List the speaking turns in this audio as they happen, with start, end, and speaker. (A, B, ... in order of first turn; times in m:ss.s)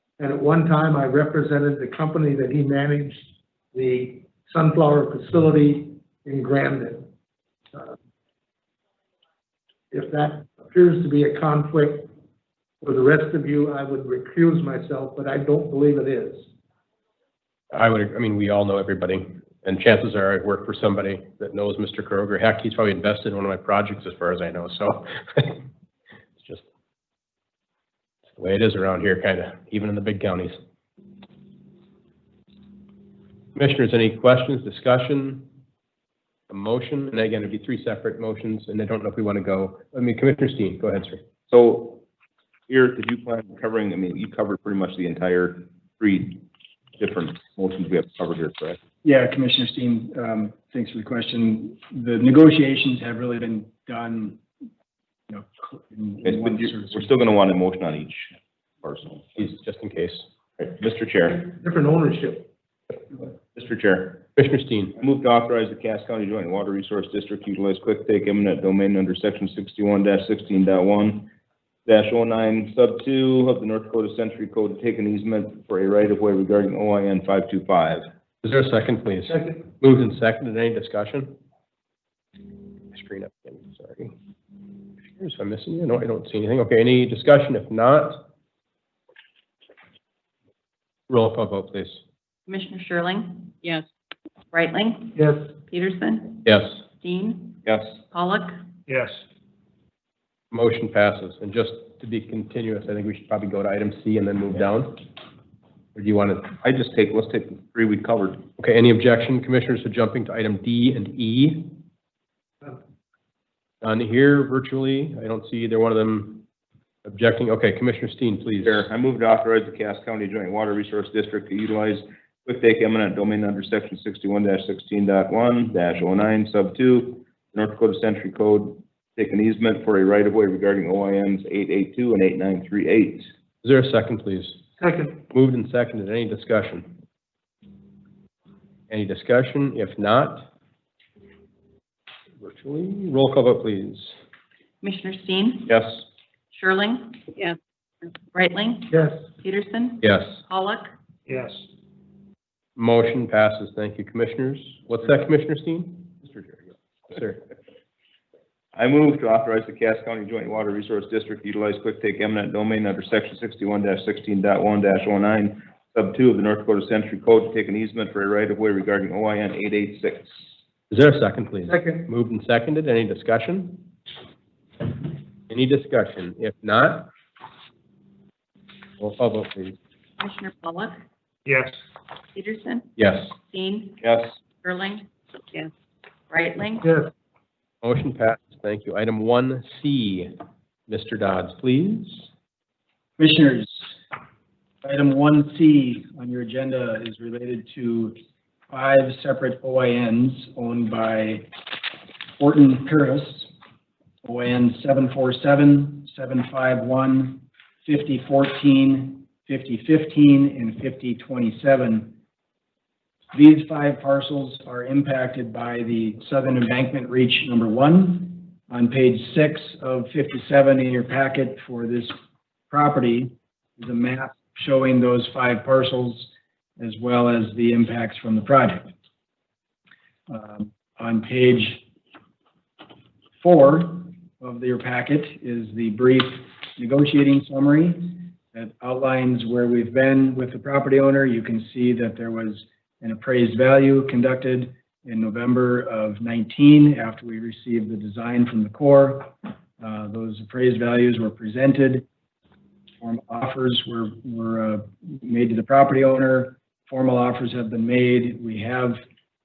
0:00.2-0:07.1 A
0:09.9-0:12.1 A
0:12.8-0:16.5 A
0:17.7-0:25.6 B
0:28.3-0:30.6 B
0:33.5-0:35.5 B
0:36.5-0:41.2 B
0:41.5-0:42.0 C
0:42.7-0:46.4 C
0:47.0-0:48.8 C
0:49.0-0:54.4 D
0:55.3-0:57.1 D
0:56.2-0:59.2 C
0:59.4-1:00.2 B
1:00.6-1:01.5 C
1:01.4-1:02.5 A
1:03.4-1:04.2 C
1:04.4-1:04.9 B
1:05.0-1:11.3 C
1:11.8-1:18.1 C
1:18.4-1:21.4 B
1:19.3-1:19.6 A
1:22.9-1:24.1 B
1:25.2-1:28.2 B
1:31.1-1:32.0 B
1:32.5-1:33.6 E
1:34.5-1:36.4 E
1:35.2-1:35.5 A
1:36.4-1:36.8 B
1:37.0-1:38.5 E
1:37.6-1:38.0 C
1:38.9-1:39.2 A
1:40.5-1:45.0 B
1:45.9-1:46.5 B
1:46.6-1:48.4 C
1:48.6-1:51.8 B
1:53.8-1:56.4 B
1:57.0-1:58.9 B
1:58.6-2:13.3 C
2:13.6-2:14.7 B
2:14.8-2:15.2 A
2:15.3-2:17.0 B
2:18.9-2:20.5 B
2:22.4-2:24.2 B
2:24.8-2:25.8 E
2:25.7-2:26.0 C
2:26.5-2:27.3 E
2:28.3-2:30.9 E
2:28.9-2:29.2 A
2:30.0-2:30.4 B
2:31.3-2:31.6 A
2:32.8-2:36.1 B
2:37.1-2:37.4 B
2:38.7-2:50.4 C
2:50.9-2:53.9 B
2:51.6-2:52.1 A
2:55.5-2:57.1 B
2:59.0-2:59.8 B
3:00.2-3:01.0 E
3:01.4-3:01.8 A
3:02.3-3:04.0 E
3:03.0-3:03.3 B
3:04.0-3:04.3 C
3:04.6-3:05.1 E
3:06.3-3:06.9 E
3:06.8-3:07.1 A
3:07.8-3:10.3 B
3:10.9-3:12.3 B
3:13.2-3:13.9 D
3:14.8-3:18.2 D
3:18.7-3:21.5 D
3:22.4-3:23.5 D
3:24.2-3:32.1 D
3:33.3-3:42.1 D
3:42.7-3:48.9 D
3:50.3-3:51.8 D
3:53.4-4:12.0 D
4:13.0-4:19.0 D